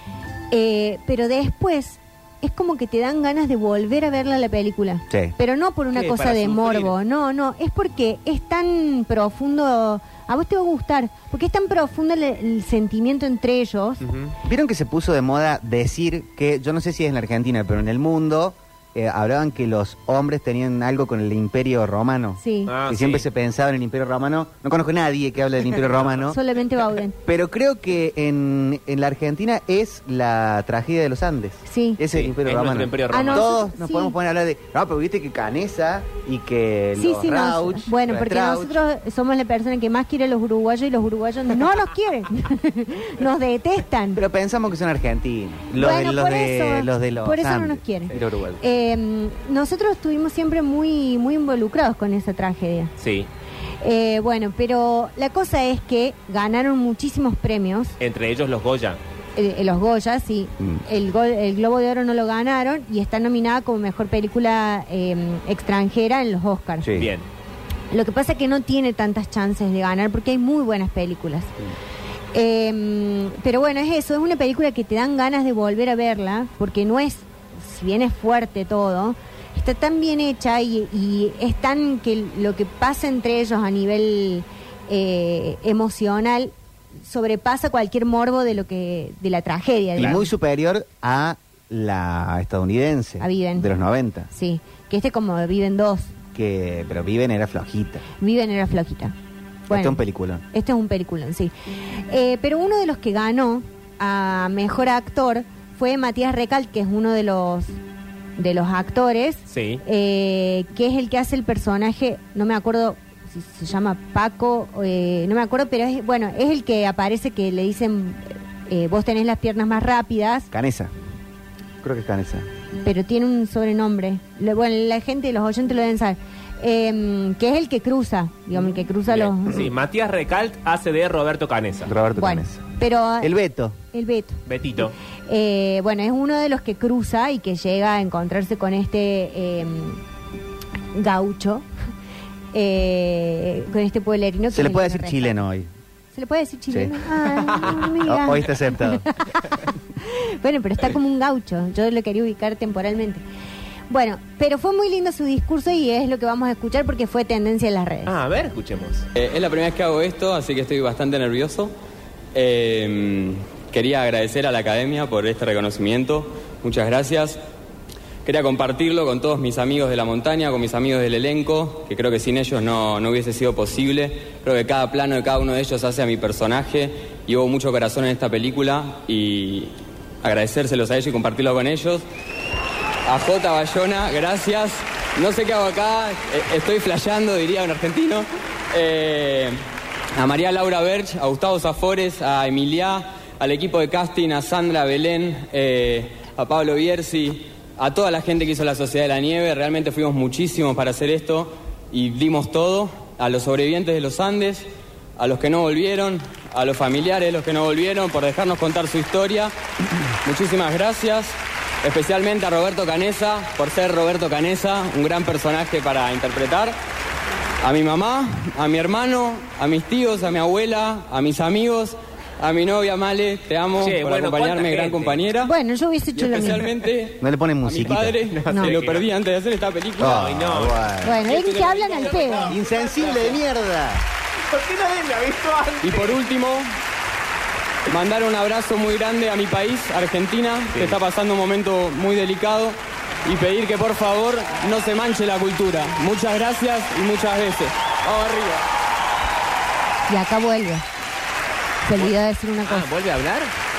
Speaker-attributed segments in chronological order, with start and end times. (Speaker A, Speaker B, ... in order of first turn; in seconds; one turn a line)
Speaker A: 0.5-14.0
Speaker B: 5.9-6.9
Speaker B: 14.0-14.3
Speaker C: 14.4-26.4
Speaker A: 22.4-22.7
Speaker B: 22.7-23.2
Speaker A: 26.3-27.1
Speaker C: 27.2-38.8
Speaker A: 31.7-32.0
Speaker B: 32.1-33.5
Speaker A: 33.1-34.1
Speaker A: 37.0-44.2
Speaker C: 44.1-48.6
Speaker A: 45.7-52.9
Speaker B: 53.0-53.3
Speaker A: 53.8-57.9
Speaker B: 58.0-59.0
Speaker A: 59.4-66.9
Speaker C: 66.8-67.1
Speaker B: 67.0-67.2
Speaker A: 67.9-71.5
Speaker A: 72.3-90.3
Speaker C: 90.0-94.3
Speaker A: 93.2-93.7
Speaker A: 94.3-96.1
Speaker C: 96.3-98.0
Speaker A: 98.2-99.1
Speaker A: 99.7-100.0
Speaker C: 99.7-100.4
Speaker A: 100.5-101.5
Speaker A: 102.1-107.8
Speaker A: 108.4-120.5
Speaker B: 109.5-109.8
Speaker C: 120.5-120.9
Speaker C: 121.8-122.5
Speaker A: 122.8-129.6
Speaker B: 128.6-131.9
Speaker C: 131.8-132.7
Speaker A: 132.2-133.3
Speaker C: 133.2-133.8
Speaker A: 133.9-134.4
Speaker B: 134.5-134.9
Speaker A: 135.3-140.0
Speaker A: 140.9-141.7
Speaker A: 142.5-145.3
Speaker C: 144.5-145.7
Speaker A: 146.1-153.2
Speaker C: 146.7-149.1
Speaker A: 153.9-158.1
Speaker B: 158.1-159.1
Speaker D: 159.1-161.7
Speaker D: 162.3-167.4
Speaker D: 168.2-182.0
Speaker D: 183.1-189.6
Speaker D: 190.2-209.5
Speaker D: 210.2-216.8
Speaker D: 217.6-225.5
Speaker B: 223.8-225.2
Speaker A: 225.4-226.7
Speaker D: 226.2-230.3
Speaker C: 227.2-228.2
Speaker B: 228.3-229.1
Speaker B: 230.0-233.4
Speaker C: 230.0-231.2
Speaker A: 231.0-232.5
Speaker C: 232.4-234.0
Speaker B: 234.5-236.2
Speaker D: 235.8-236.7
Speaker D: 237.9-248.3
Speaker B: 240.7-241.0
Speaker B: 248.1-248.6
Speaker A: 250.1-250.8
Speaker A: 251.8-252.9
Speaker B: 251.9-253.5